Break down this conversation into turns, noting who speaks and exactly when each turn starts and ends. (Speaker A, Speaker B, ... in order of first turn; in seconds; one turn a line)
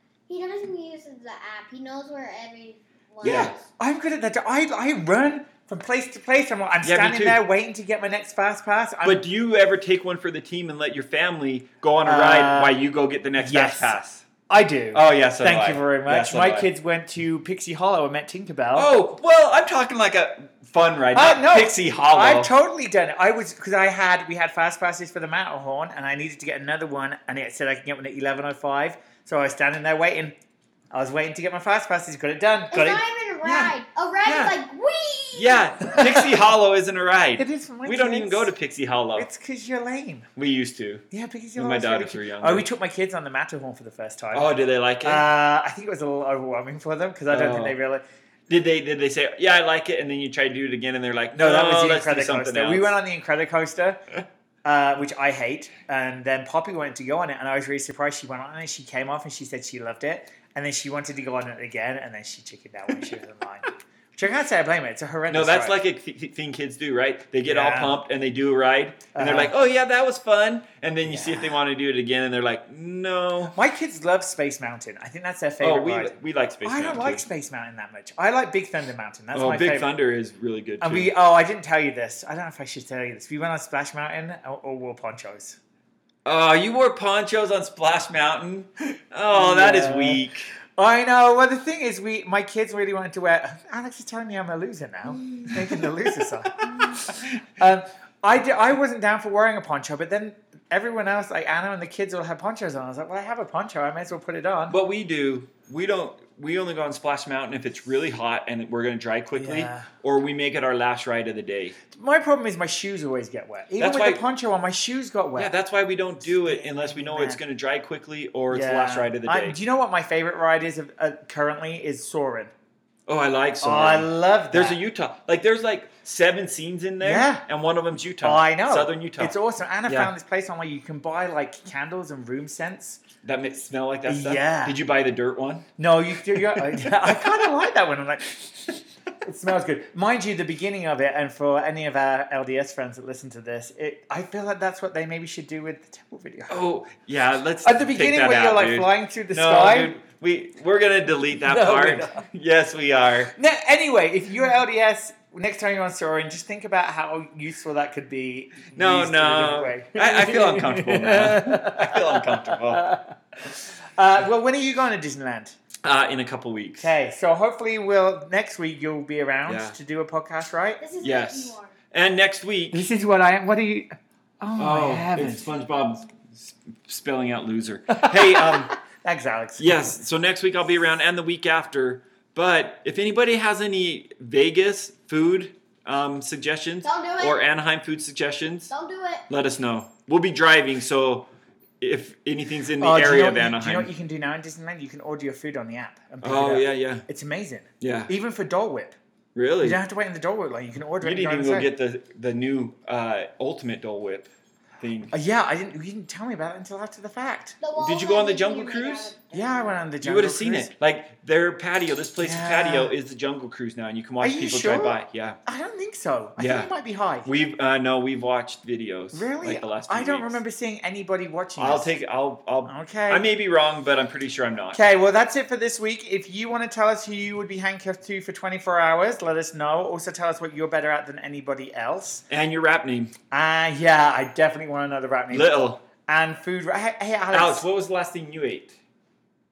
Speaker A: 0.3-3.6
Speaker B: 3.2-3.5
Speaker C: 3.2-9.2
Speaker B: 6.8-7.4
Speaker B: 9.0-14.2
Speaker C: 12.1-12.7
Speaker C: 13.4-18.9
Speaker B: 14.9-16.7
Speaker B: 18.7-22.5
Speaker C: 21.1-30.3
Speaker C: 30.9-33.0
Speaker A: 32.7-36.0
Speaker B: 33.4-34.5
Speaker B: 35.3-39.3
Speaker C: 37.4-38.5
Speaker C: 39.1-40.3
Speaker B: 40.4-41.0
Speaker C: 41.1-44.5
Speaker B: 41.5-42.7
Speaker B: 44.3-45.3
Speaker C: 45.0-48.0
Speaker B: 47.3-47.8
Speaker B: 48.5-53.0
Speaker C: 51.4-54.0
Speaker C: 54.6-65.8
Speaker B: 65.3-73.5
Speaker C: 67.4-68.0
Speaker C: 69.1-69.5
Speaker C: 71.0-71.5
Speaker C: 73.5-79.9
Speaker B: 75.6-77.2
Speaker B: 79.3-81.1
Speaker C: 80.8-85.6
Speaker B: 86.2-90.5
Speaker C: 89.3-90.2
Speaker C: 90.7-104.8
Speaker B: 95.4-96.1
Speaker B: 96.6-97.3
Speaker B: 104.7-111.8
Speaker C: 109.3-109.9
Speaker C: 111.9-115.5
Speaker B: 113.8-114.2
Speaker B: 115.3-119.6
Speaker C: 116.2-117.4
Speaker C: 118.5-122.5
Speaker B: 123.1-129.3
Speaker C: 123.6-124.8
Speaker C: 127.0-127.4
Speaker C: 128.2-133.0
Speaker B: 129.8-130.1
Speaker B: 133.2-135.7
Speaker C: 134.1-134.8
Speaker C: 135.8-146.6
Speaker B: 136.4-137.2
Speaker B: 146.5-153.3
Speaker C: 147.6-149.9
Speaker C: 151.4-152.2
Speaker C: 153.3-165.6
Speaker B: 158.7-162.9
Speaker B: 165.8-166.9
Speaker C: 166.8-170.8
Speaker B: 169.4-169.8
Speaker A: 170.8-171.7
Speaker B: 171.0-172.8
Speaker C: 172.7-175.5
Speaker B: 174.6-178.7
Speaker C: 177.9-180.0
Speaker B: 179.6-188.7
Speaker A: 186.8-187.4
Speaker A: 188.7-189.3
Speaker B: 189.3-191.2
Speaker B: 191.8-193.9
Speaker C: 192.8-199.0
Speaker B: 196.2-197.1
Speaker B: 197.8-198.1
Speaker B: 199.3-199.8
Speaker C: 199.6-201.7
Speaker B: 201.0-204.3
Speaker B: 204.8-205.1
Speaker C: 205.1-207.6
Speaker A: 207.6-209.8
Speaker B: 207.7-209.1
Speaker C: 209.3-210.7
Speaker B: 210.0-215.4
Speaker C: 212.2-212.9
Speaker C: 214.2-217.3
Speaker B: 216.4-216.7
Speaker B: 217.2-220.4
Speaker C: 219.1-221.9
Speaker B: 221.6-224.8
Speaker C: 222.6-223.3
Speaker C: 224.7-232.2
Speaker B: 232.3-233.1
Speaker C: 233.3-237.7
Speaker B: 235.3-235.8
Speaker B: 237.3-238.7